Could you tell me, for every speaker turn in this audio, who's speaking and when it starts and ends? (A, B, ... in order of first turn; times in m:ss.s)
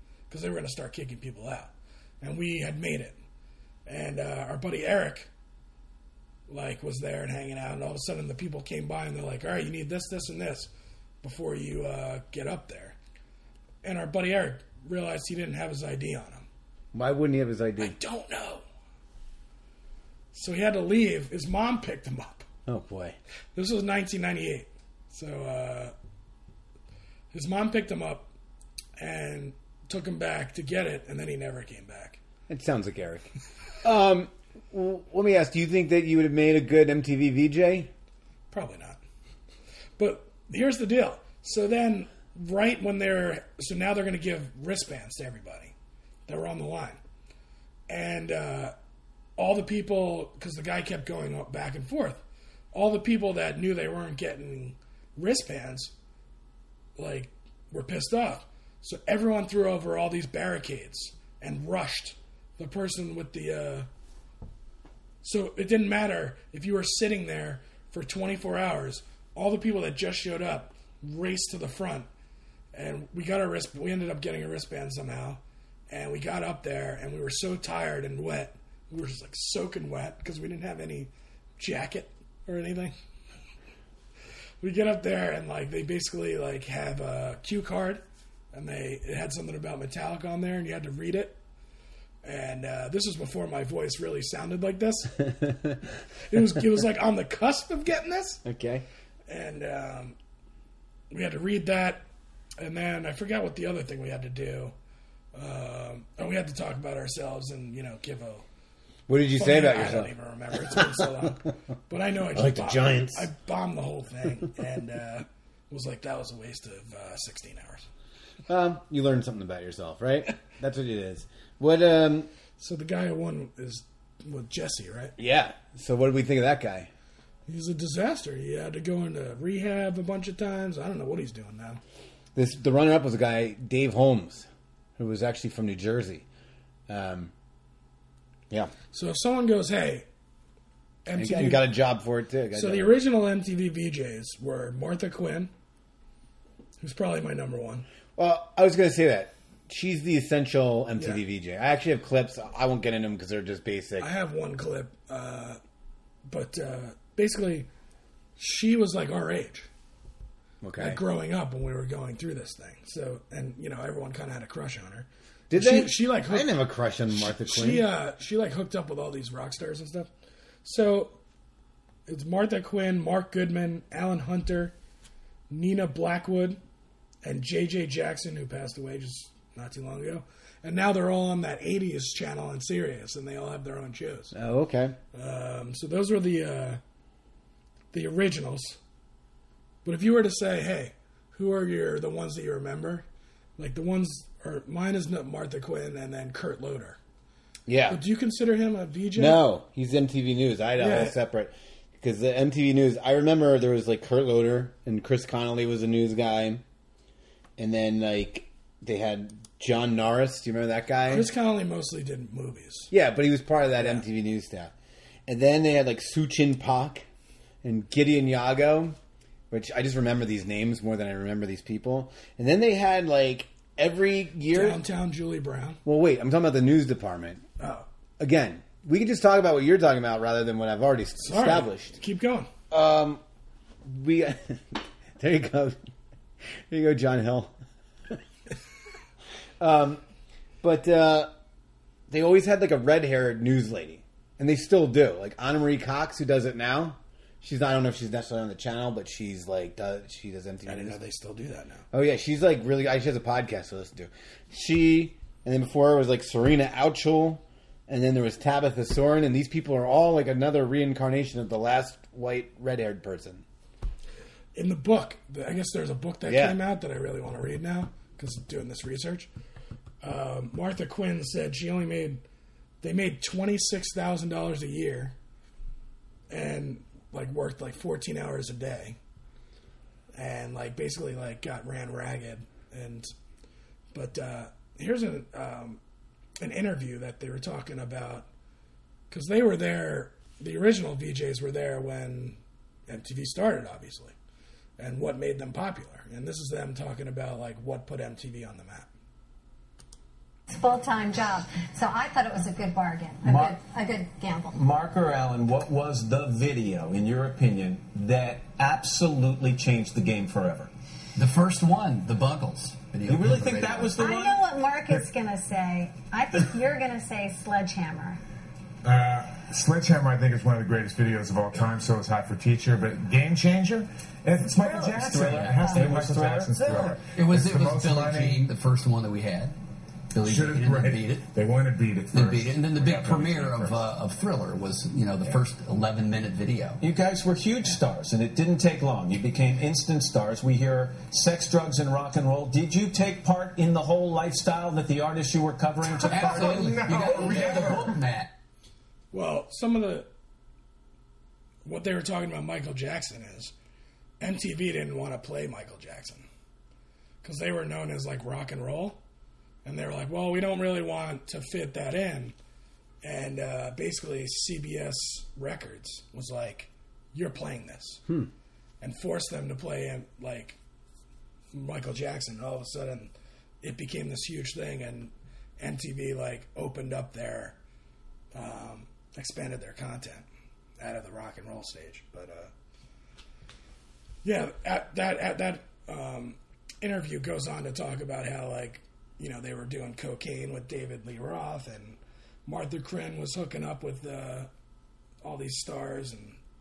0:00.3-0:03.2 A
0:03.8-0:05.3 A
0:06.5-0:10.7 A
0:11.2-0:13.0 A
0:13.8-0:16.5 A
0:16.9-0:18.0 B
0:17.8-0:18.6 A
0:20.3-0:22.5 A
0:22.6-0:23.2 B
0:23.5-0:25.9 A
0:27.3-0:28.3 A
0:29.0-0:32.2 A
0:32.5-0:33.3 B
0:33.8-0:37.9 B
0:38.5-0:39.0 A
0:40.0-0:45.7 A
0:46.3-0:47.0 A
0:47.9-0:48.7 A
0:49.4-0:52.2 A
0:52.7-0:55.9 A
0:57.0-1:03.9 A
1:05.2-1:12.1 A
1:12.7-1:22.9 A
1:24.6-1:28.0 A
1:28.5-1:31.4 A
1:32.2-1:35.2 A
1:35.2-1:35.8 B
1:36.3-1:38.4 A
1:38.4-1:38.8 B
1:39.3-1:40.2 A
1:41.1-1:42.0 A
1:42.6-1:44.7 A
1:45.3-1:48.4 A
1:49.1-1:50.1 B
1:49.4-1:57.8 A
1:50.7-1:51.0 B
1:52.3-1:53.3 B
1:58.5-2:02.3 B
2:02.6-2:05.1 A
2:05.2-2:06.9 B
2:07.5-2:11.8 A
2:12.3-2:16.2 B
2:16.9-2:17.3 B
2:18.9-2:20.0 A
2:21.0-2:21.7 A
2:21.1-2:23.0 B
2:22.5-2:25.5 A
2:26.8-2:27.8 A
2:28.2-2:34.1 B
2:34.0-2:35.6 A
2:36.3-2:37.7 A
2:38.4-2:39.7 A
2:40.6-2:41.0 B
2:40.8-2:46.5 A
2:45.5-2:47.9 B
2:47.1-2:50.1 A
2:50.6-2:51.2 A
2:52.1-2:54.7 A
2:55.5-2:56.6 A
2:57.2-3:04.3 A
3:04.3-3:05.0 B
3:05.1-3:06.8 A
3:07.9-3:08.8 A
3:09.8-3:13.0 A
3:13.6-3:17.0 A
3:17.7-3:18.0 B
3:17.9-3:19.4 A
3:19.1-3:26.6 B
3:20.8-3:21.2 A
3:27.6-3:31.3 B
3:31.1-3:32.9 A
3:32.9-3:34.7 B
3:33.8-3:34.0 A
3:35.3-3:37.0 B
3:37.6-3:39.0 B
3:39.5-3:44.8 B
3:44.5-3:45.8 A
3:45.8-3:47.4 B
3:47.6-3:47.8 A
3:48.2-3:52.0 B
3:51.2-3:52.5 A
3:52.7-3:53.2 B
3:53.8-3:55.8 B
3:56.7-3:57.5 B
3:59.6-4:00.0 B
4:00.6-4:01.3 B
4:02.1-4:11.0 B
4:10.6-4:11.8 A
4:11.9-4:23.4 B
4:24.5-4:29.3 A
4:26.2-4:26.6 B
4:30.0-4:32.2 A
4:32.8-4:35.1 A
4:36.3-4:39.0 A
4:40.1-4:43.1 A
4:43.9-4:45.8 A
4:46.4-4:48.3 A
4:49.1-4:54.1 A
4:54.8-4:58.9 A
5:00.5-5:04.6 C
5:03.2-5:03.6 D
5:04.5-5:10.7 D
5:11.2-5:14.0 E
5:13.0-5:14.4 D
5:13.8-5:18.2 C
5:18.8-5:28.4 F
5:24.6-5:26.0 E
5:25.0-5:27.0 D
5:26.6-5:29.5 E
5:30.1-5:31.3 E
5:30.2-5:33.8 F
5:32.1-5:36.8 E
5:36.8-5:47.7 D
5:46.0-5:48.3 E
5:49.1-5:50.1 A
5:51.6-5:53.5 A
5:54.2-5:56.2 A
5:57.2-5:59.0 A
5:59.6-6:02.3 A
6:03.0-6:08.0 A
6:08.8-6:10.6 A
6:11.5-6:13.1 A
6:13.6-6:17.6 A
6:18.3-6:20.2 A
6:20.8-6:22.5 A
6:24.2-6:34.5 A
6:35.2-6:36.4 A